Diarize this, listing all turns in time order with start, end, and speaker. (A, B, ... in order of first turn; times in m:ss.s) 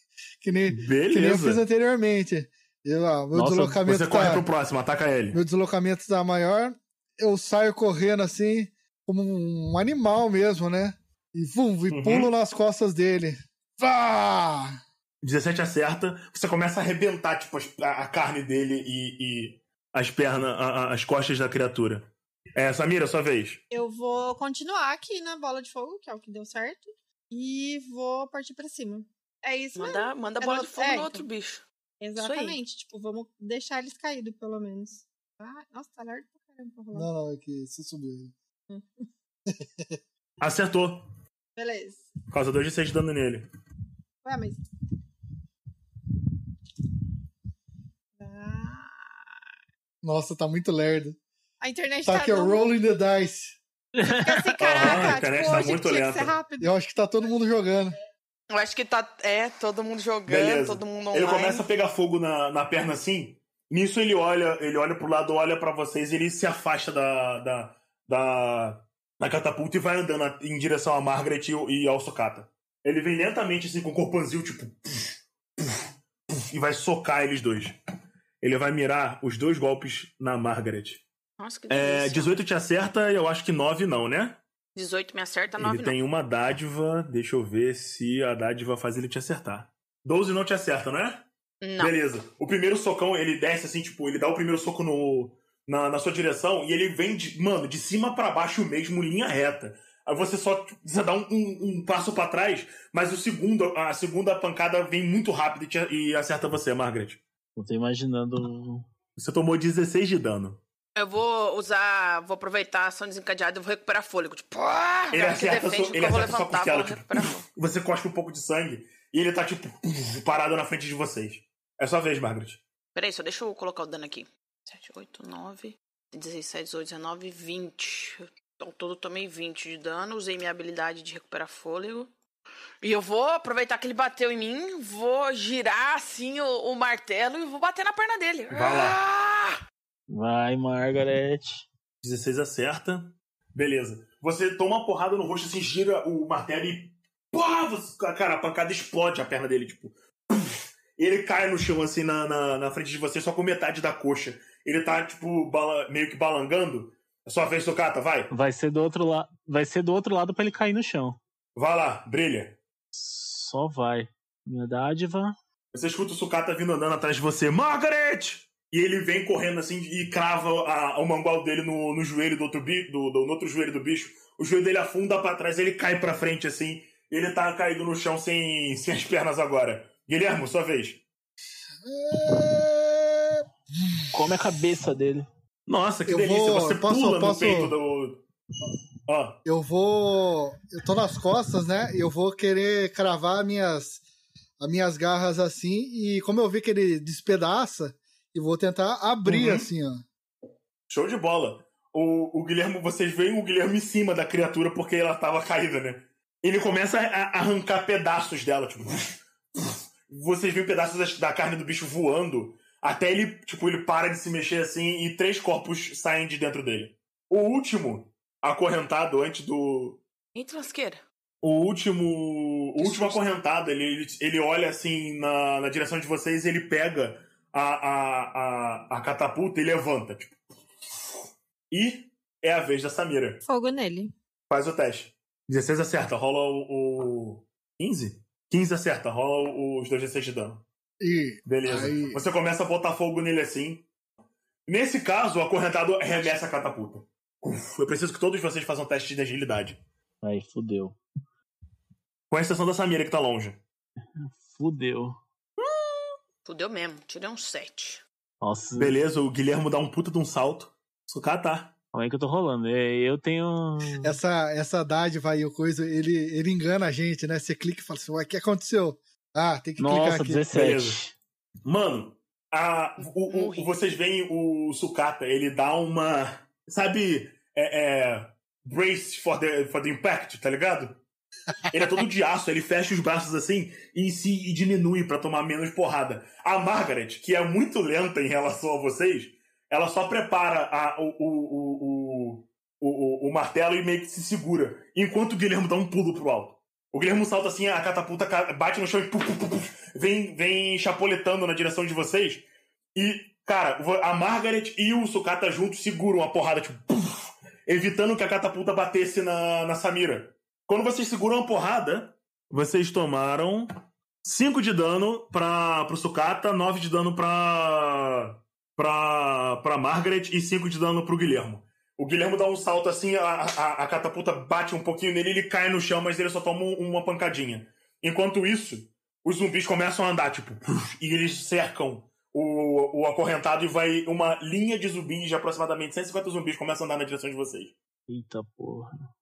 0:00.4-0:04.4 A
0:00.7-0:01.6 B
0:03.3-0:03.8 C
0:03.8-0:05.4 B
0:05.3-0:14.7 A
0:11.9-0:12.3 B
0:15.2-0:23.6 B
0:23.7-0:31.2 D
0:29.8-0:31.6 E
0:32.0-0:37.1 D
0:32.2-0:32.6 E
0:36.9-0:38.3 A
0:38.7-0:39.1 D
0:39.5-0:39.9 A
0:40.4-0:41.0 B
0:41.6-0:42.0 D
0:42.3-0:43.4 B
0:44.2-0:44.6 D
0:48.2-0:49.1 D
0:50.0-0:51.2 A
0:51.6-0:52.6 D
0:52.0-0:53.6 A
0:53.9-0:55.2 C
0:54.2-0:56.7 D
0:54.6-0:56.3 B
0:56.6-0:57.9 A
0:58.5-1:01.6 E
1:00.3-1:17.7 B
1:18.4-1:21.0 B
1:21.4-1:22.3 E
1:21.7-1:24.4 B
1:24.7-1:26.0 E
1:25.6-1:31.2 B
1:31.6-1:31.9 E
1:31.8-1:47.2 B
1:47.6-1:48.9 C
1:49.2-1:50.6 B
1:51.0-1:57.5 E
1:55.1-2:02.6 B
2:02.9-2:12.1 E
2:12.8-2:19.6 E
2:18.5-2:19.0 B
2:20.1-2:21.6 C
2:22.0-2:38.3 B
2:38.3-2:41.2 C
2:41.6-2:42.6 B
2:42.9-2:45.3 C
2:45.7-3:01.0 B
3:01.8-3:04.1 A
3:04.1-3:05.3 C
3:05.7-3:08.2 B
3:06.1-3:07.8 A
3:09.1-3:09.4 B
3:09.4-3:14.0 A
3:14.6-3:20.0 A
3:19.2-3:19.7 B
3:20.9-3:40.0 B
3:40.3-3:41.0 E
3:41.4-3:50.3 B
3:42.8-3:43.2 E
3:51.7-3:53.4 B
3:53.4-3:54.1 D
3:54.5-4:00.6 B
4:01.0-4:02.2 A
4:01.4-4:03.8 B
4:04.7-4:09.8 B
4:06.1-4:06.4 E
4:10.2-4:11.0 C
4:12.3-4:13.6 B
4:14.2-4:15.2 C
4:16.4-4:18.0 E
4:18.4-4:19.0 C
4:18.8-4:21.7 B
4:21.9-4:24.2 C
4:24.0-4:30.4 A
4:29.8-4:31.1 C
4:30.5-4:31.0 B
4:31.6-4:41.0 B
4:33.2-4:33.7 E
4:41.7-5:13.7 B
5:14.2-5:37.7 B
5:38.1-5:39.1 C